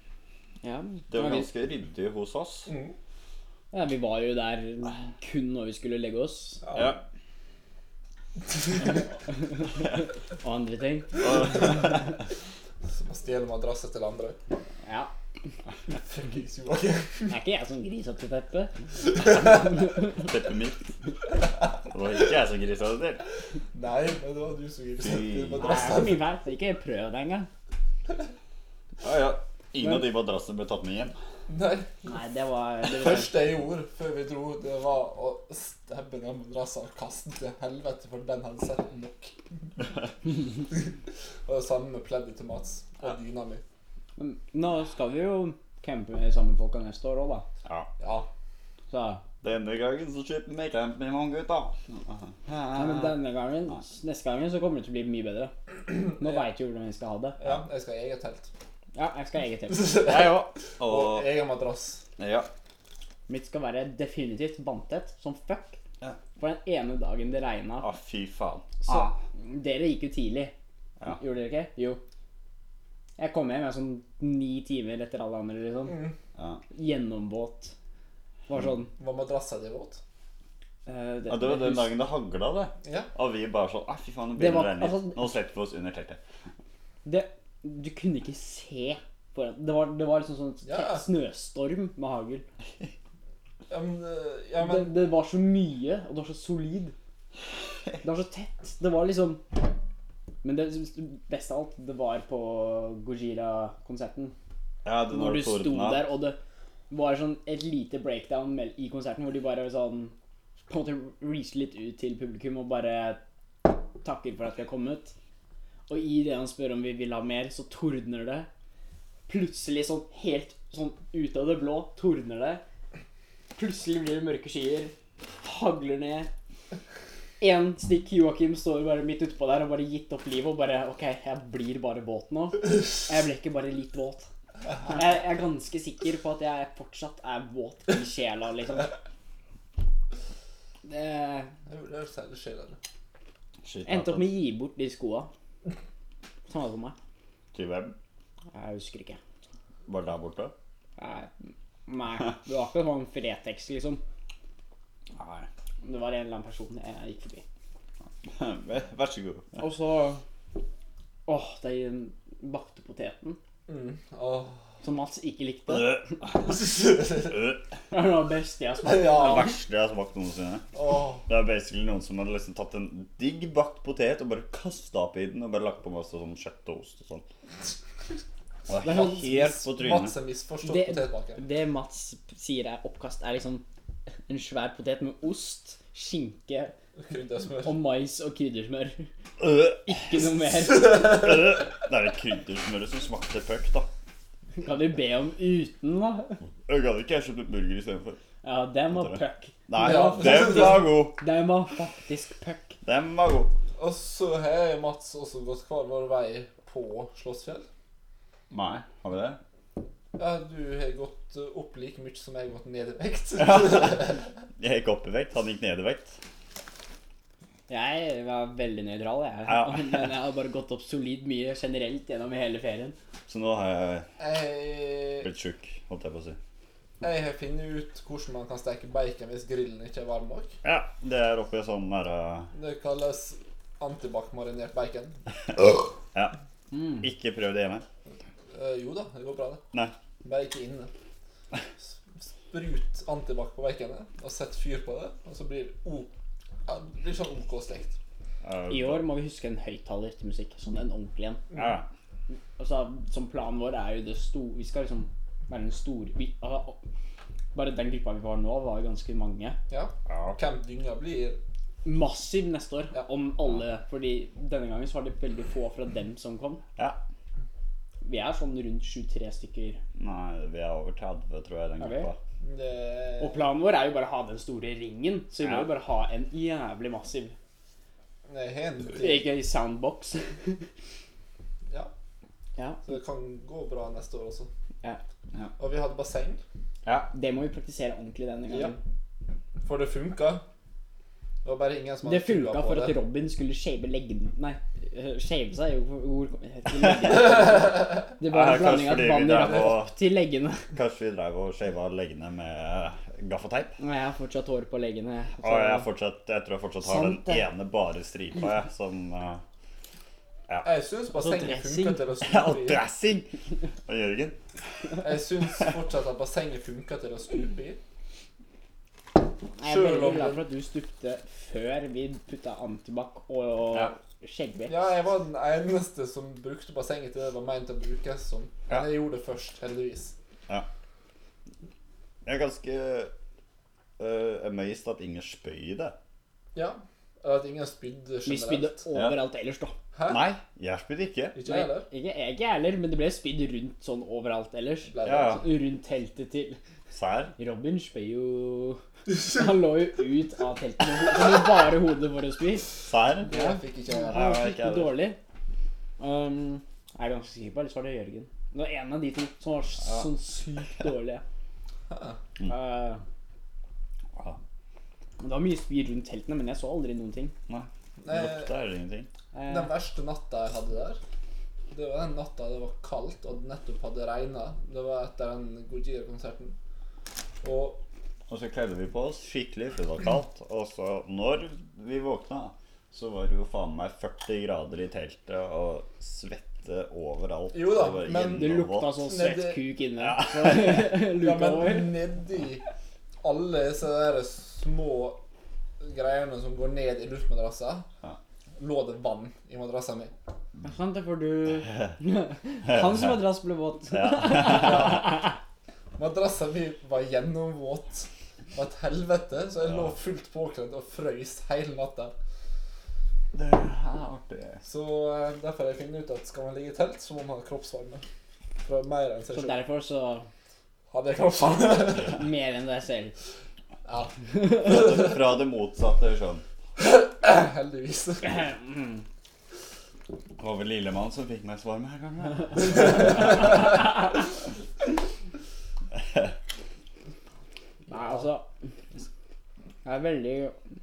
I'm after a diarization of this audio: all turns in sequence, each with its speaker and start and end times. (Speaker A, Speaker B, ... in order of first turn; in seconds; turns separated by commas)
Speaker A: 0.6-1.5, Speaker B: 1.1-2.7, Speaker C: 2.7-2.9, Speaker A: 3.7-6.6, Speaker C: 6.6-7.0, Speaker B: 6.7-7.0, Speaker A: 8.8-11.9, Speaker B: 11.2-12.0, Speaker C: 12.9-14.4, Speaker A: 14.8-15.1, Speaker C: 15.9-17.3, Speaker A: 17.3-20.2, Speaker B: 20.1-20.9, Speaker B: 21.7-23.2, Speaker C: 23.7-26.2, Speaker B: 25.0-25.9, Speaker A: 25.6-27.5, Speaker B: 29.0-31.1, Speaker C: 31.5-32.1, Speaker A: 32.0-33.4, Speaker C: 32.8-39.3, Speaker C: 41.5-43.6, Speaker A: 44.2-47.5, Speaker B: 47.6-47.9, Speaker C: 48.0-48.3, Speaker A: 48.9-49.2, Speaker B: 49.4-53.2, Speaker A: 52.7-57.4, Speaker C: 57.4-58.5, Speaker A: 58.9-60.0, Speaker C: 59.7-62.0, Speaker B: 60.0-61.3, Speaker B: 62.2-62.5, Speaker A: 63.3-65.8, Speaker A: 66.4-67.9, Speaker B: 67.8-69.2, Speaker A: 68.8-70.5, Speaker A: 71.1-72.0, Speaker A: 73.2-76.1, Speaker C: 75.9-76.1, Speaker A: 76.7-77.7, Speaker A: 78.5-78.9, Speaker C: 79.0-80.0, Speaker A: 80.9-81.9, Speaker B: 81.3-86.2, Speaker C: 82.8-83.1, Speaker A: 84.4-85.2, Speaker A: 87.0-92.4, Speaker C: 90.6-91.0, Speaker C: 93.7-95.0, Speaker A: 94.6-96.9, Speaker A: 98.0-99.5, Speaker A: 100.4-104.3, Speaker B: 104.8-106.0, Speaker A: 105.1-106.4, Speaker A: 106.9-110.1, Speaker A: 110.7-115.1, Speaker A: 115.9-118.5, Speaker A: 119.3-122.6, Speaker A: 123.5-126.3, Speaker A: 127.4-134.3, Speaker A: 134.8-138.9, Speaker A: 140.8-141.5, Speaker C: 141.7-142.8, Speaker B: 143.6-144.2, Speaker A: 143.9-145.3, Speaker A: 146.5-146.9, Speaker B: 147.5-147.9, Speaker A: 148.5-149.2, Speaker B: 149.9-150.5, Speaker A: 151.0-154.0, Speaker B: 155.2-155.5, Speaker A: 155.8-157.4, Speaker B: 158.2-159.6, Speaker A: 159.6-160.2, Speaker A: 161.2-163.4, Speaker C: 163.7-164.6, Speaker A: 164.8-166.2, Speaker B: 165.7-166.0, Speaker C: 166.4-167.4, Speaker B: 167.3-167.6, Speaker A: 167.9-169.5, Speaker C: 168.8-169.5, Speaker B: 169.1-170.7, Speaker C: 170.7-171.2, Speaker B: 171.2-177.2, Speaker B: 178.7-180.1, Speaker A: 178.8-179.5, Speaker C: 179.0-181.4, Speaker A: 180.6-183.6, Speaker A: 184.3-186.8, Speaker C: 187.0-187.8, Speaker A: 187.6-189.1, Speaker B: 189.4-189.9, Speaker A: 189.8-191.1, Speaker B: 190.8-193.9, Speaker A: 194.6-196.4, Speaker B: 196.7-198.2, Speaker A: 198.4-202.8, Speaker B: 199.0-201.2, Speaker C: 199.8-200.9, Speaker B: 202.8-203.5, Speaker C: 203.8-207.7, Speaker B: 208.5-209.4, Speaker C: 210.1-214.2, Speaker B: 213.4-216.2, Speaker A: 217.7-222.9, Speaker B: 219.5-220.1, Speaker B: 223.3-224.1, Speaker C: 224.2-225.3, Speaker B: 225.2-226.4, Speaker C: 227.0-230.5, Speaker B: 230.6-232.5, Speaker C: 232.5-235.2, Speaker A: 236.7-237.0, Speaker B: 237.0-237.8, Speaker C: 238.5-239.6, Speaker C: 240.2-240.9, Speaker C: 241.8-246.1, Speaker C: 246.7-248.0, Speaker B: 248.4-249.1, Speaker A: 248.7-251.4, Speaker B: 251.5-251.9, Speaker A: 252.6-256.8, Speaker A: 257.5-259.6, Speaker C: 259.7-261.4, Speaker B: 260.1-260.4, Speaker A: 261.8-266.6, Speaker A: 268.0-269.8, Speaker B: 269.9-272.2, Speaker A: 271.8-272.1, Speaker C: 272.4-273.4, Speaker A: 273.2-277.3, Speaker B: 275.4-275.7, Speaker C: 278.3-279.2, Speaker A: 278.9-280.6, Speaker A: 282.6-282.8, Speaker C: 282.8-284.5, Speaker C: 285.6-286.4, Speaker A: 287.1-288.8, Speaker C: 289.6-290.4, Speaker C: 291.4-293.0, Speaker A: 292.0-300.7, Speaker B: 296.8-297.1, Speaker B: 298.2-299.9, Speaker B: 300.7-303.7, Speaker A: 303.8-305.9, Speaker B: 305.4-309.4, Speaker A: 306.8-307.5, Speaker C: 310.6-312.8, Speaker A: 311.1-312.0, Speaker B: 312.2-313.3, Speaker B: 313.9-314.4, Speaker C: 315.0-317.8, Speaker A: 319.6-324.8, Speaker C: 319.6-320.4, Speaker C: 324.7-330.1, Speaker B: 332.2-333.1, Speaker B: 334.0-335.9, Speaker C: 336.5-338.8, Speaker A: 338.2-339.8, Speaker C: 339.9-340.2, Speaker B: 340.1-341.4, Speaker C: 341.3-341.9, Speaker A: 341.4-346.6, Speaker C: 344.9-345.4, Speaker B: 345.0-345.4, Speaker B: 346.9-347.3, Speaker A: 347.4-352.7, Speaker B: 352.9-353.3, Speaker C: 353.3-354.3, Speaker A: 353.3-355.2, Speaker B: 354.1-355.0, Speaker A: 356.0-361.2, Speaker B: 359.8-360.1, Speaker C: 361.9-362.2, Speaker A: 362.5-363.0, Speaker A: 365.2-367.3, Speaker B: 367.5-369.1, Speaker C: 368.0-368.5, Speaker A: 369.3-369.7, Speaker C: 369.5-371.0, Speaker C: 371.7-376.5, Speaker C: 377.4-377.8, Speaker B: 378.3-389.0, Speaker C: 387.5-389.6, Speaker A: 388.3-392.0, Speaker B: 390.0-390.9, Speaker C: 391.0-392.6, Speaker C: 393.2-395.2, Speaker C: 395.8-397.9, Speaker C: 398.6-400.1, Speaker A: 400.6-405.2, Speaker B: 403.9-405.0, Speaker C: 404.4-405.3, Speaker C: 406.0-412.1, Speaker B: 413.3-414.6, Speaker C: 414.6-418.0, Speaker C: 418.6-419.6, Speaker A: 419.3-420.3, Speaker C: 420.9-422.2, Speaker A: 421.4-423.1, Speaker C: 423.8-425.1, Speaker B: 424.4-426.4, Speaker C: 426.8-428.5, Speaker B: 430.4-433.2, Speaker A: 437.9-438.5, Speaker A: 439.8-440.5